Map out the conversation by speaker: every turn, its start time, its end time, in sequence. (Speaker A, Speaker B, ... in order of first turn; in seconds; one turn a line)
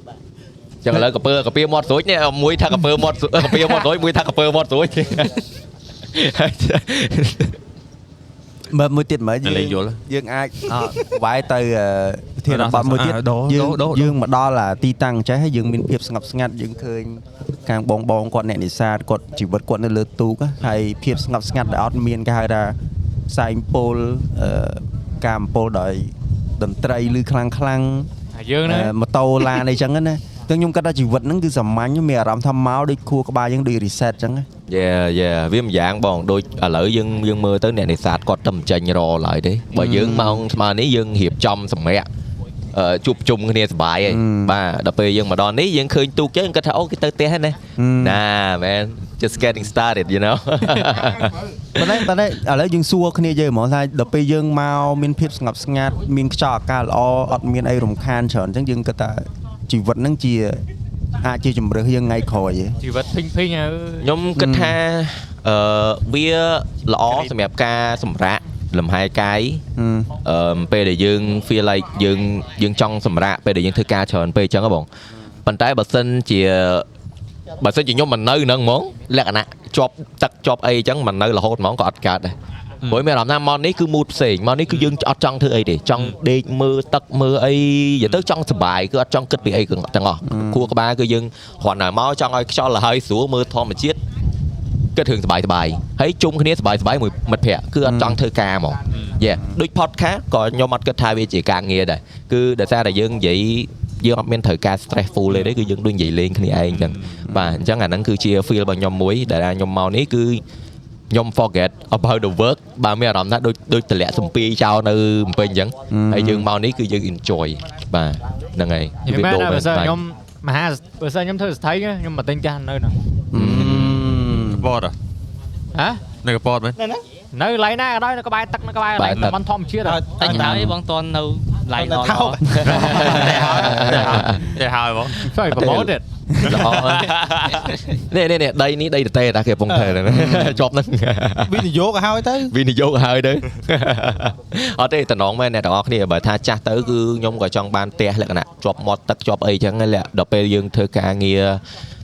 Speaker A: 0.8-5.4
Speaker A: 6.1-7.6
Speaker B: 8.7-22.8
Speaker C: 9.4-10.0
Speaker C: 12.5-14.1
Speaker B: 23.3-28.1
Speaker D: 28.3-28.9
Speaker B: 28.6-34.5
Speaker A: 34.7-42.1
Speaker B: 39.8-40.4
Speaker A: 42.7-51.4
Speaker B: 44.1-44.5
Speaker B: 47.8-48.2
Speaker B: 51.8-60.6
Speaker B: 61.2-62.8
Speaker D: 62.8-64.1
Speaker A: 64.0-69.6
Speaker B: 64.4-64.8
Speaker B: 69.8-70.1
Speaker A: 70.2-74.9
Speaker A: 75.5-76.9
Speaker A: 77.6-82.3
Speaker A: 82.9-94.0
Speaker B: 90.3-90.6
Speaker A: 95.0-110.4
Speaker B: 97.8-98.2
Speaker C: 106.7-107.2
Speaker A: 111.1-120.0
Speaker B: 115.9-116.5
Speaker D: 119.0-123.0
Speaker B: 123.3-124.7
Speaker A: 123.3-124.2
Speaker C: 123.7-125.0
Speaker D: 125.7-126.1
Speaker C: 126.2-126.8
Speaker E: 126.8-127.0
Speaker D: 127.3-130.1
Speaker A: 129.0-129.3
Speaker E: 129.8-130.5
Speaker F: 130.2-132.4
Speaker B: 130.4-130.6
Speaker E: 131.8-132.7
Speaker A: 132.5-134.5
Speaker C: 132.6-135.2
Speaker B: 133.2-134.2
Speaker D: 133.2-134.3
Speaker D: 135.2-136.0
Speaker A: 135.6-135.9
Speaker B: 136.4-136.8
Speaker A: 136.4-141.7
Speaker E: 139.7-140.0
Speaker B: 140.1-140.6
Speaker E: 141.5-142.5
Speaker A: 142.5-151.6